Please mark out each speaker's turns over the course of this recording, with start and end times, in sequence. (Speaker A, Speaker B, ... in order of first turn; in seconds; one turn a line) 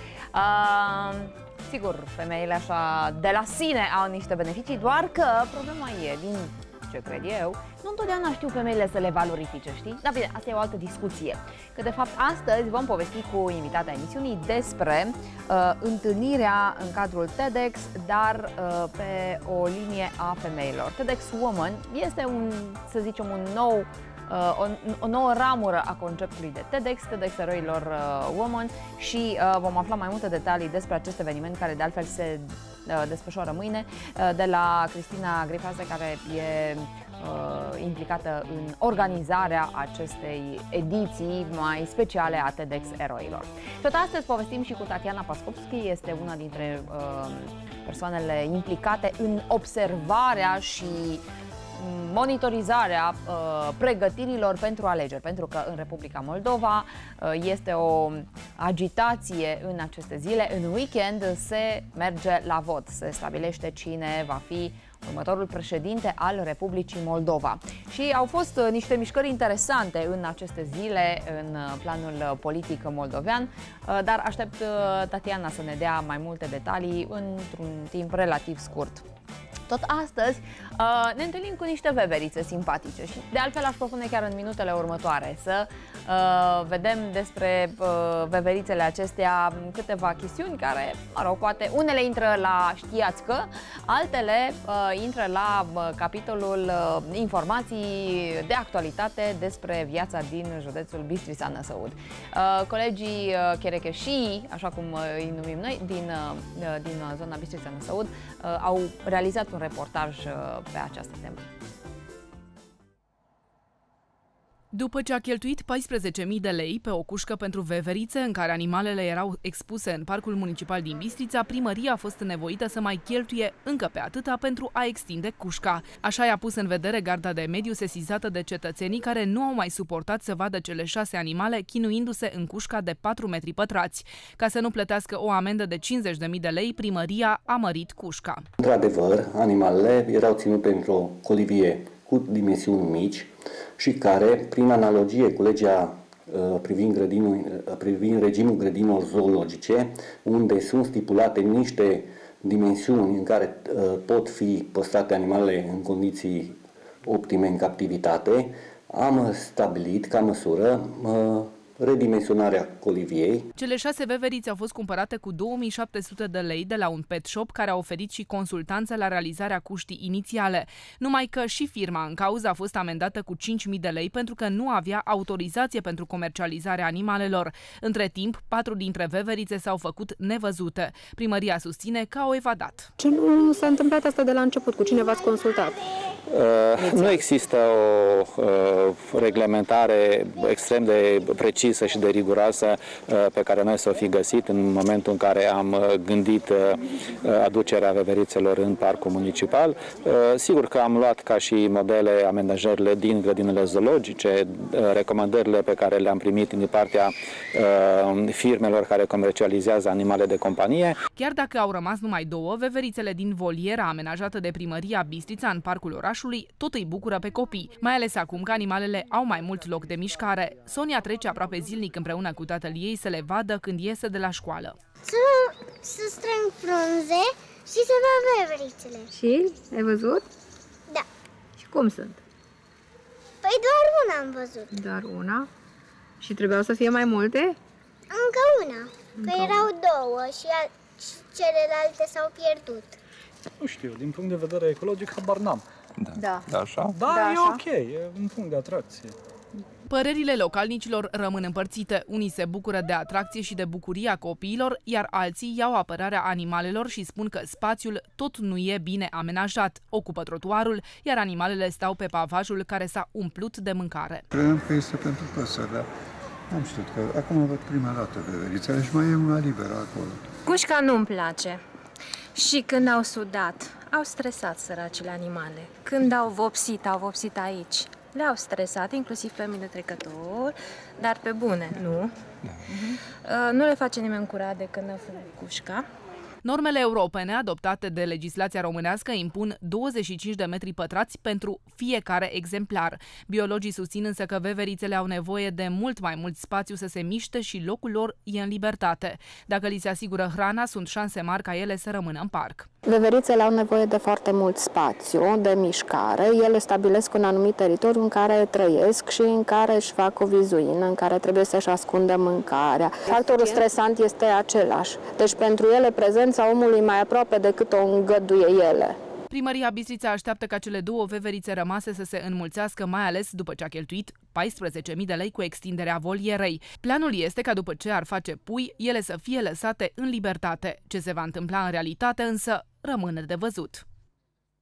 Speaker A: 0.3-51.2
Speaker A: 51.8-79.0
Speaker A: 79.7-111.4
Speaker B: 114.7-138.4
Speaker C: 138.6-163.5
Speaker B: 163.6-182.9
Speaker D: 183.0-185.8
Speaker E: 186.3-211.0
Speaker D: 186.8-187.2
Speaker B: 211.2-224.8
Speaker F: 225.0-229.1
Speaker D: 229.2-230.2
Speaker D: 231.6-232.2
Speaker F: 233.4-234.7
Speaker D: 234.7-235.5
Speaker D: 236.2-237.6
Speaker F: 238.1-243.0
Speaker D: 239.2-239.5
Speaker G: 243.6-245.7
Speaker G: 246.9-249.2
Speaker B: 249.9-264.2
Speaker H: 264.3-265.9
Speaker H: 266.5-270.2
Speaker I: 270.4-271.6
Speaker I: 272.4-282.1
Speaker I: 282.7-285.9
Speaker B: 286.4-302.7
Speaker J: 302.8-319.0
Speaker D: 313.1-313.6
Speaker B: 319.3-333.9